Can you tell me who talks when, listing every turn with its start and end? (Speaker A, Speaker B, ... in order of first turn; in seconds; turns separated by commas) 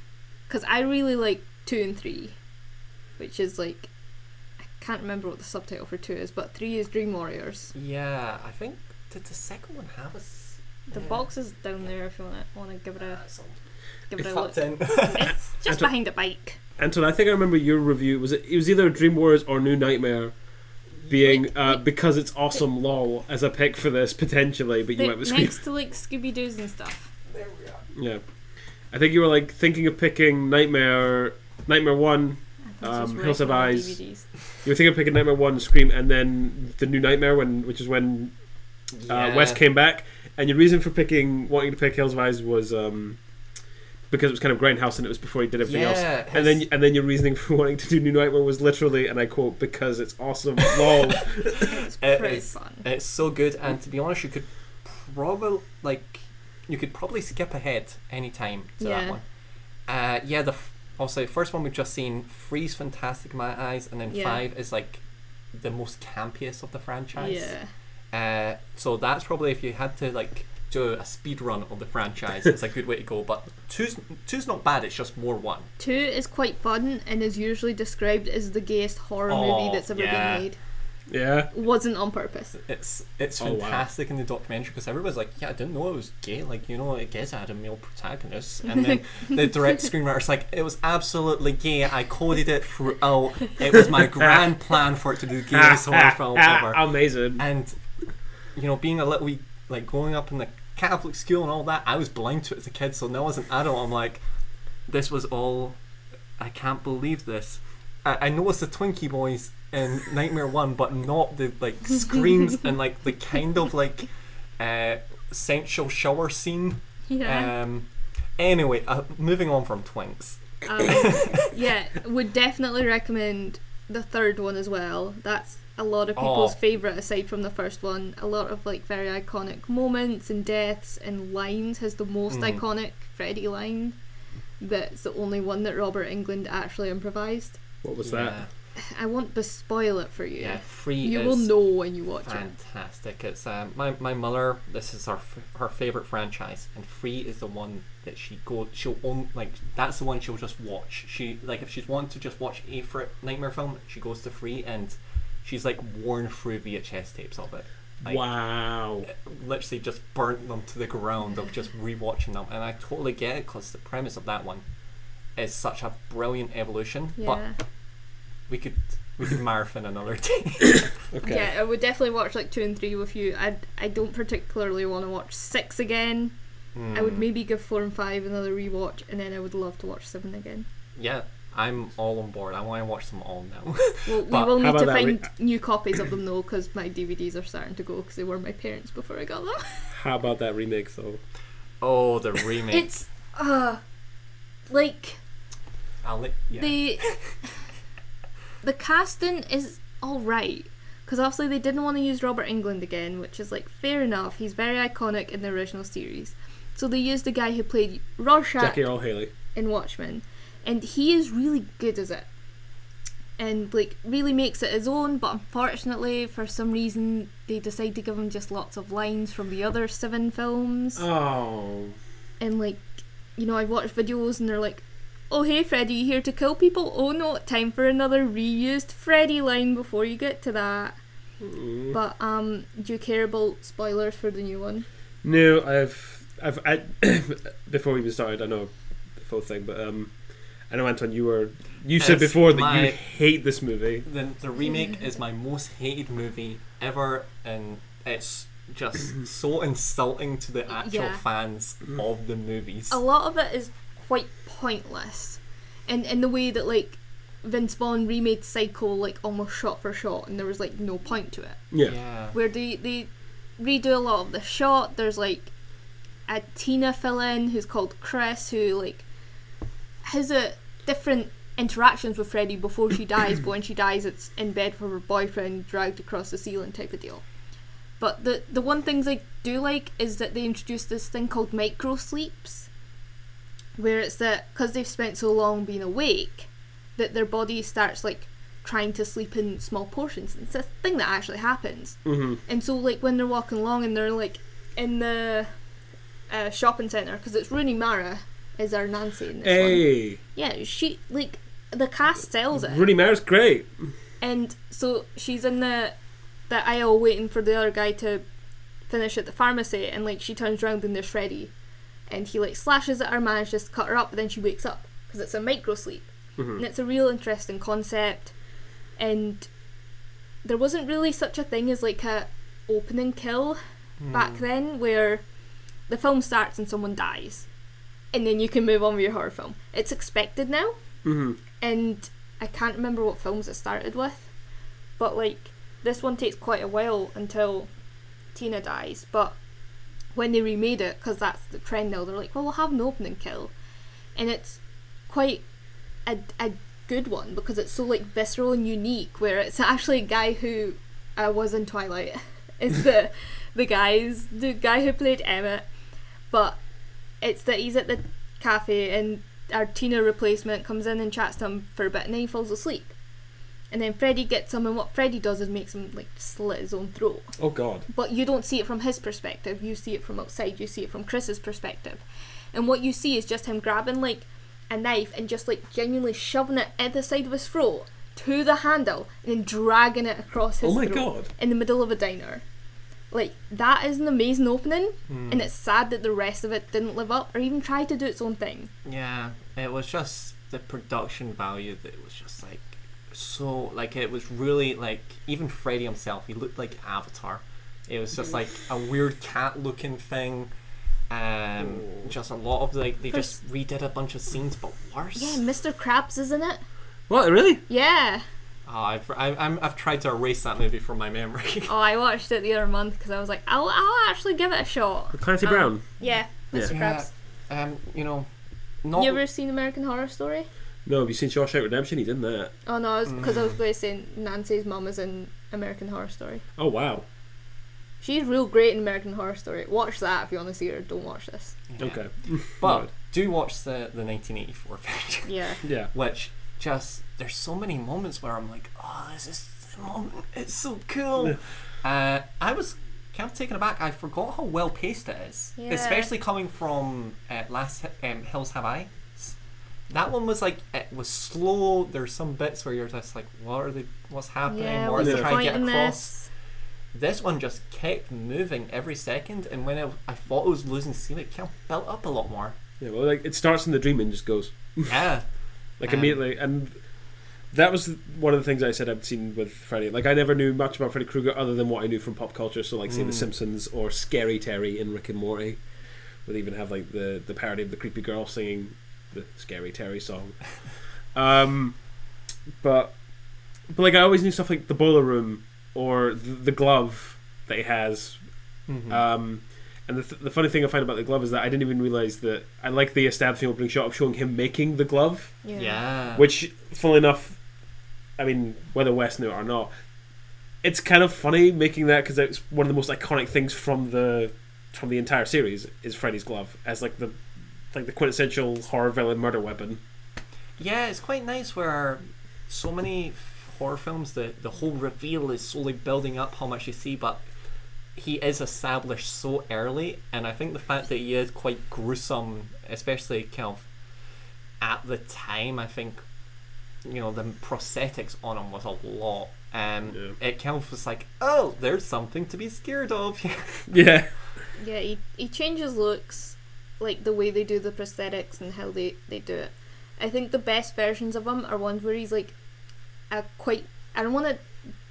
Speaker A: 0.5-2.4, Speaker A: 3.2-3.9, Speaker A: 4.6-7.7, Speaker B: 7.8-11.3, Speaker A: 10.9-13.2, Speaker B: 13.0-13.6, Speaker A: 14.1-16.6, Speaker B: 14.2-15.3, Speaker C: 16.8-20.3, Speaker C: 21.1-25.6, Speaker A: 21.2-21.9, Speaker A: 25.0-27.1, Speaker B: 27.3-27.9, Speaker C: 27.9-28.2, Speaker C: 28.9-34.0, Speaker A: 32.7-34.3, Speaker C: 34.6-38.3, Speaker B: 39.0-39.6, Speaker C: 39.1-43.2, Speaker C: 44.1-51.6, Speaker B: 45.6-46.6, Speaker B: 51.4-59.2, Speaker A: 51.5-52.9, Speaker A: 58.8-59.2, Speaker B: 59.9-65.0, Speaker A: 64.1-64.4, Speaker B: 65.5-67.5, Speaker A: 67.2-67.7, Speaker B: 68.1-75.7, Speaker A: 75.8-80.6, Speaker B: 79.3-80.5, Speaker C: 81.1-81.5, Speaker A: 81.5-82.5, Speaker B: 82.6-97.8, Speaker C: 83.4-83.9, Speaker C: 94.2-94.5, Speaker C: 95.5-97.4, Speaker B: 98.5-104.2, Speaker B: 104.9-105.8, Speaker B: 106.4-117.9, Speaker A: 117.1-117.5, Speaker B: 118.4-121.5, Speaker A: 120.7-134.0, Speaker B: 126.2-126.6, Speaker B: 132.3-132.6, Speaker A: 134.6-137.6, Speaker C: 137.8-138.4, Speaker B: 138.0-138.5, Speaker A: 138.8-142.5, Speaker B: 140.4-141.6, Speaker B: 142.2-158.2, Speaker C: 158.0-159.1, Speaker B: 159.1-164.6, Speaker B: 165.4-167.4, Speaker A: 167.2-167.6, Speaker B: 168.5-170.9, Speaker C: 171.1-171.5, Speaker A: 171.2-176.3, Speaker B: 176.8-177.3, Speaker A: 176.9-180.7, Speaker B: 181.0-184.6, Speaker A: 184.1-189.9, Speaker C: 184.5-185.3, Speaker C: 189.9-191.2, Speaker B: 191.8-192.9, Speaker A: 192.7-193.8, Speaker A: 194.7-195.2, Speaker B: 196.0-197.3, Speaker A: 196.6-197.2, Speaker A: 198.6-208.8, Speaker C: 208.6-209.3, Speaker A: 209.6-212.3, Speaker A: 213.4-221.1, Speaker C: 221.0-222.0, Speaker A: 222.4-231.0, Speaker C: 231.4-232.0, Speaker A: 231.9-234.9, Speaker C: 235.2-240.1, Speaker C: 240.7-244.1, Speaker B: 242.0-243.0, Speaker B: 244.1-253.0, Speaker A: 250.7-251.2, Speaker A: 252.9-261.6, Speaker B: 261.8-262.4, Speaker A: 262.3-265.5, Speaker A: 266.3-269.1, Speaker A: 270.0-277.2, Speaker A: 278.0-282.7, Speaker A: 283.8-295.5, Speaker C: 292.1-292.4, Speaker A: 296.3-302.9, Speaker C: 299.4-300.2, Speaker C: 302.5-303.7, Speaker A: 304.2-305.9, Speaker A: 306.5-308.2, Speaker A: 308.9-311.5, Speaker A: 312.1-318.3, Speaker C: 316.4-316.6, Speaker A: 319.0-319.5, Speaker A: 320.4-323.6, Speaker B: 324.0-324.4, Speaker A: 324.1-325.2, Speaker A: 325.9-327.5, Speaker A: 328.1-330.8, Speaker C: 331.0-331.4, Speaker A: 331.6-334.3, Speaker A: 335.0-337.7, Speaker A: 338.4-339.4, Speaker A: 340.1-343.5, Speaker A: 344.1-345.4, Speaker A: 346.1-355.7, Speaker A: 356.3-356.6, Speaker A: 357.2-362.9, Speaker A: 363.7-367.3, Speaker C: 367.4-367.9, Speaker A: 367.9-382.4, Speaker C: 380.6-381.3, Speaker A: 383.1-388.7, Speaker B: 385.1-385.5, Speaker B: 388.9-400.5, Speaker B: 401.1-405.4, Speaker A: 405.2-406.6, Speaker C: 407.1-407.6, Speaker A: 407.7-408.2, Speaker B: 408.7-411.7, Speaker A: 411.7-417.1, Speaker C: 415.1-415.8, Speaker B: 416.6-418.3, Speaker B: 418.8-419.2, Speaker A: 419.0-420.5, Speaker C: 420.9-422.5, Speaker A: 422.7-426.4, Speaker B: 423.1-423.5, Speaker C: 426.6-427.1, Speaker A: 428.0-431.6, Speaker B: 431.7-449.3, Speaker C: 431.8-432.9, Speaker A: 435.3-435.6, Speaker C: 435.6-435.9, Speaker A: 445.6-446.1, Speaker B: 449.9-456.1, Speaker A: 454.5-456.3, Speaker C: 455.0-455.4, Speaker B: 456.9-462.6, Speaker C: 462.8-464.9, Speaker B: 464.9-465.2, Speaker C: 465.8-466.8, Speaker B: 465.8-466.2, Speaker C: 467.5-475.6, Speaker B: 472.9-473.3, Speaker C: 476.2-480.4, Speaker C: 481.1-481.8, Speaker C: 482.6-483.0, Speaker C: 483.7-488.2, Speaker B: 488.7-489.0, Speaker C: 488.9-495.4, Speaker A: 495.4-495.8, Speaker B: 495.5-496.3, Speaker C: 496.1-497.4, Speaker C: 498.2-499.7, Speaker C: 500.6-507.2, Speaker C: 507.7-509.8, Speaker B: 510.6-517.2, Speaker B: 518.0-523.6, Speaker B: 524.6-526.0, Speaker B: 526.8-533.8, Speaker C: 533.7-534.1, Speaker A: 534.6-542.3, Speaker A: 543.1-544.5